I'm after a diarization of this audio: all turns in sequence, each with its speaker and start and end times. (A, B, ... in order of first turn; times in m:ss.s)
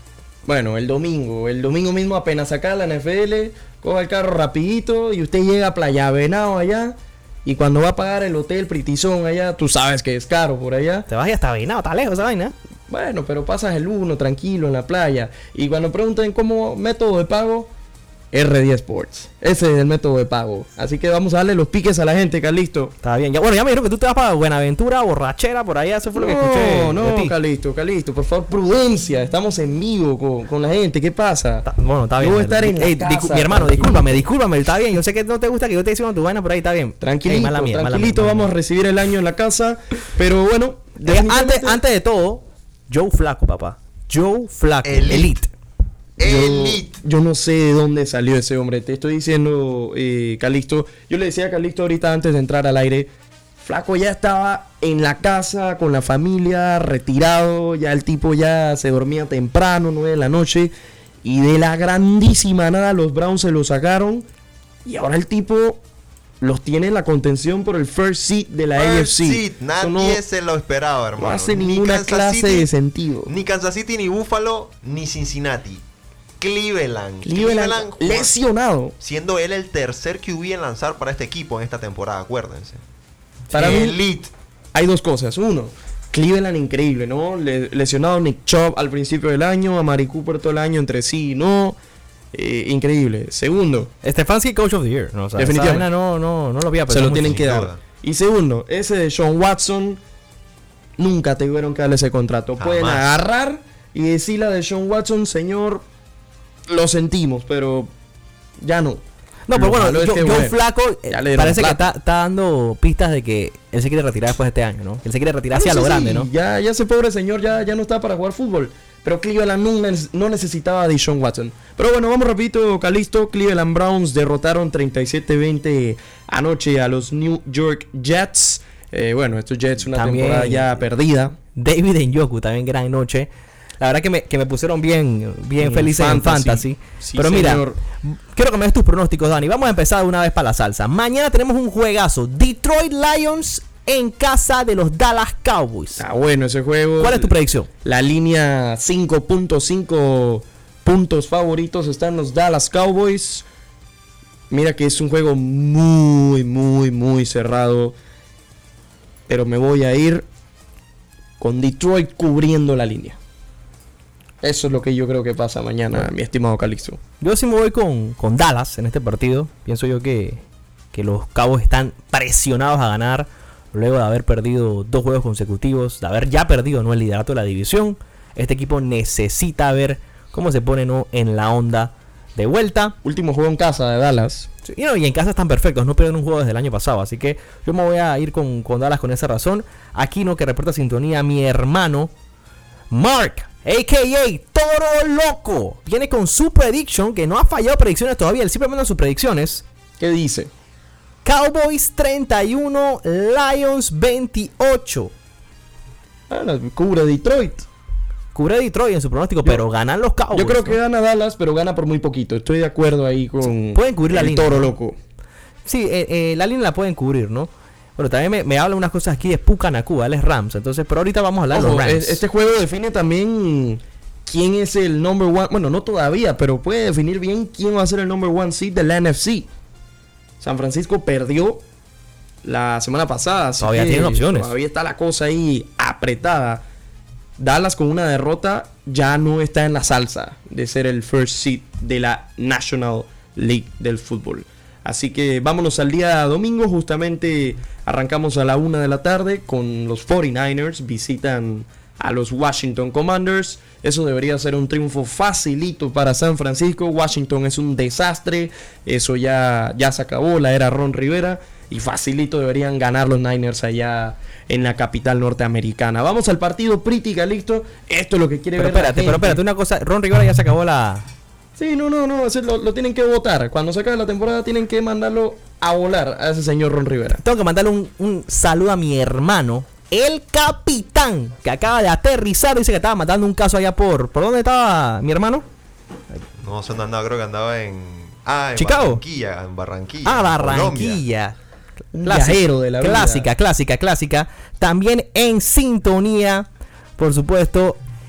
0:00.4-0:11.1 A
0:11.1-0:12.5 B
0:12.9-0:17.7 A
0:18.3-0:22.9 A
0:23.0-0:27.3 B
0:26.1-0:34.2 A
0:31.6-0:38.5 B
0:37.0-0:41.8 A
0:41.0-0:45.5 B
0:44.8-0:45.4 C
0:46.2-0:46.9 C
0:46.2-1:00.7 A
1:01.2-1:04.2 A
1:04.8-1:05.8 A
1:06.4-1:10.2 A
1:08.8-1:12.7 C
1:11.2-1:13.3 A
1:13.3-1:15.8 C
1:16.4-1:18.3 C
1:17.2-1:18.9 A
1:19.0-1:22.8 C
1:23.5-1:24.3 C
1:23.5-1:24.0 A
1:24.7-1:31.8 A
1:32.3-1:33.9 A
1:34.0-1:37.5 B
1:35.4-1:35.9 A
1:36.9-1:40.0 A
1:37.1-1:37.8 C
1:41.0-1:45.8 A
1:42.6-1:43.2 C
1:46.7-1:47.9 A
1:48.6-1:50.6 A
1:49.5-1:56.3 B
1:51.1-1:51.9 A
1:55.5-2:11.4 A
2:09.9-2:10.8 B
2:11.6-2:26.0 B
2:15.6-2:17.8 A
2:26.0-2:33.4 A
2:27.0-2:27.7 B
2:34.5-2:37.9 A
2:39.3-2:40.2 A
2:41.4-2:43.2 A
2:44.4-2:47.0 A
2:47.2-3:03.0 B
3:03.0-3:04.5 A
3:04.6-3:12.1 B
3:12.9-3:19.6 B
3:20.0-3:20.5 A
3:21.2-3:25.1 B
3:26.3-3:27.6 A
3:28.3-3:30.8 B
3:30.3-3:35.0 A
3:33.7-3:34.7 B
3:35.6-3:42.2 B
3:41.5-3:49.5 A
3:50.4-3:51.6 A
3:52.4-3:56.6 A
3:53.6-3:54.5 B
3:57.4-4:29.4 A
4:28.6-4:31.1 B
4:31.6-4:37.2 A
4:37.2-4:45.4 B
4:46.4-4:51.0 C
4:48.6-4:49.0 B
4:50.0-4:51.4 B
4:51.9-4:53.3 A
4:52.0-4:56.5 B
4:57.0-4:57.8 B